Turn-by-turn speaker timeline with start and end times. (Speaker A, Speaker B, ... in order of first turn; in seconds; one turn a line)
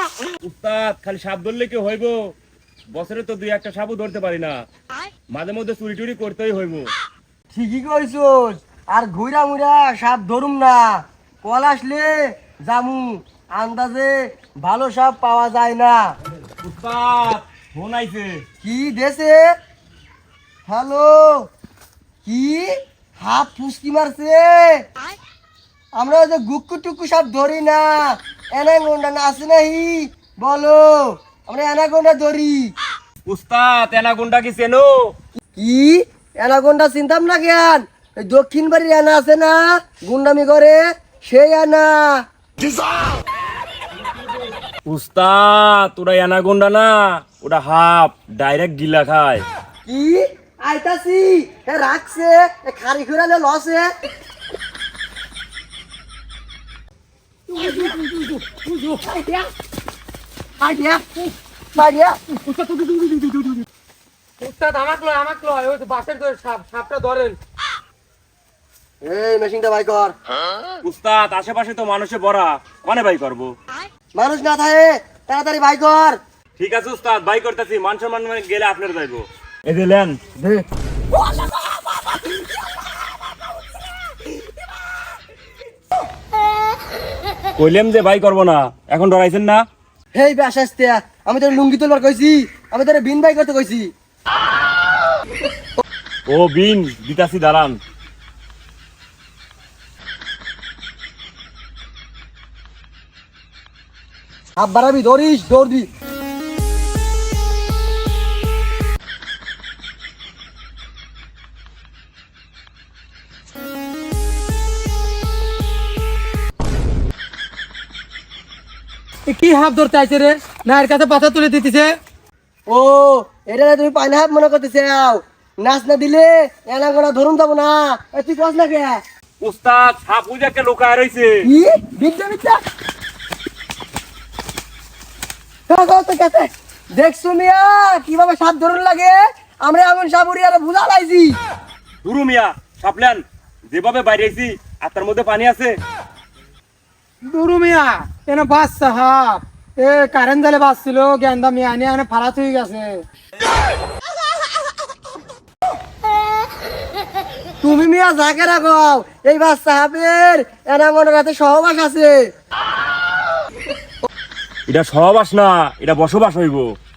Speaker A: 0.4-2.3
Speaker A: 2.9-4.6
Speaker A: 5.3-6.9
Speaker B: 7.5-16.1
Speaker A: 16.6-18.4
Speaker B: 18.6-19.5
Speaker B: 20.6-21.5
Speaker B: 22.2-24.8
Speaker B: 25.9-32.7
Speaker A: 33.3-35.1
Speaker B: 35.5-42.2
Speaker A: 44.9-49.4
Speaker B: 49.9-53.9
Speaker C: 57.5-59.1
Speaker B: 59.1-59.5
Speaker B: 60.6-62.2
Speaker C: 62.3-63.6
Speaker C: 64.4-67.4
Speaker B: 69.0-70.1
Speaker A: 70.8-73.5
Speaker B: 74.1-76.2
Speaker A: 76.6-80.2
Speaker B: 80.4-80.7
Speaker A: 87.5-89.6
Speaker B: 90.1-93.9
Speaker A: 96.3-97.8
Speaker B: 104.6-105.9
Speaker C: 119.3-122.0
Speaker B: 122.7-129.0
Speaker A: 129.4-131.4
Speaker B: 131.4-132.6
Speaker B: 135.7-141.4
Speaker A: 142.0-145.8
Speaker C: 147.3-153.0
Speaker B: 157.6-162.3
Speaker A: 164.7-166.7